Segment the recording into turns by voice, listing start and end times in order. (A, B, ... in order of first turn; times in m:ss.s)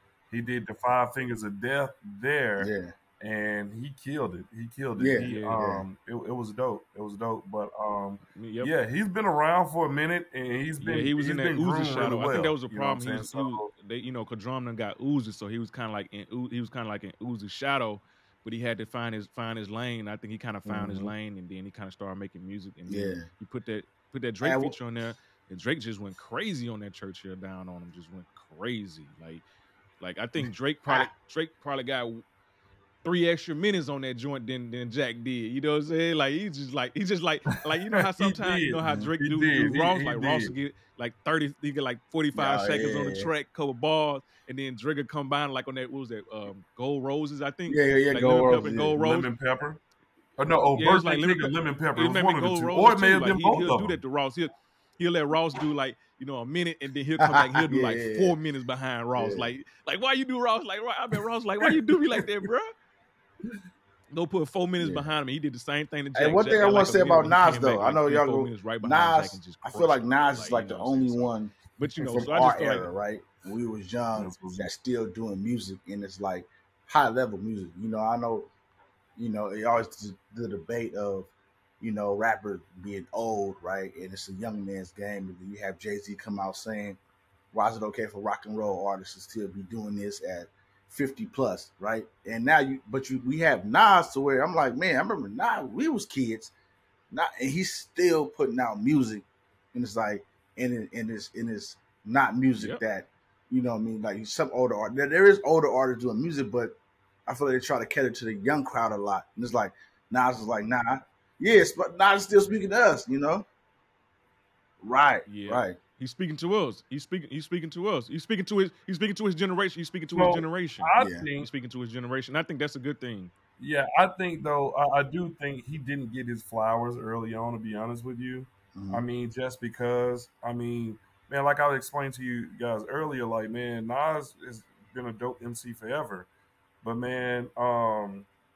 0:00.3-0:13.7 A
0:02.6-0:02.9 B
0:05.0-0:05.8 B
0:05.2-0:05.6 C
0:08.3-0:08.7 C
0:10.8-0:29.4 C
0:20.7-0:21.2 B
0:22.9-0:23.3 B
0:24.4-0:24.8 B
0:30.0-0:32.2 C
0:30.4-0:31.1 B
0:33.0-0:49.3 C
0:37.9-0:40.5 A
0:38.8-0:39.1 B
0:42.4-0:43.3 B
0:47.7-0:49.0 B
0:49.0-0:49.8 A
0:50.4-0:54.0 A
0:50.8-1:02.7 C
0:57.2-0:58.4 B
0:59.2-0:59.5 B
1:01.6-1:02.2 A
1:04.1-1:12.9 C
1:04.8-1:05.1 B
1:06.1-1:18.5 B
1:14.1-1:14.7 A
1:19.2-1:27.0 B
1:27.5-1:36.5 B
1:37.1-1:53.4 B
1:42.6-1:42.8 C
1:54.8-1:55.8 B
1:55.2-2:03.3 C
2:00.1-2:01.5 A
2:01.0-2:01.2 B
2:03.6-2:16.3 A
2:08.8-2:09.0 B
2:16.8-2:18.3 A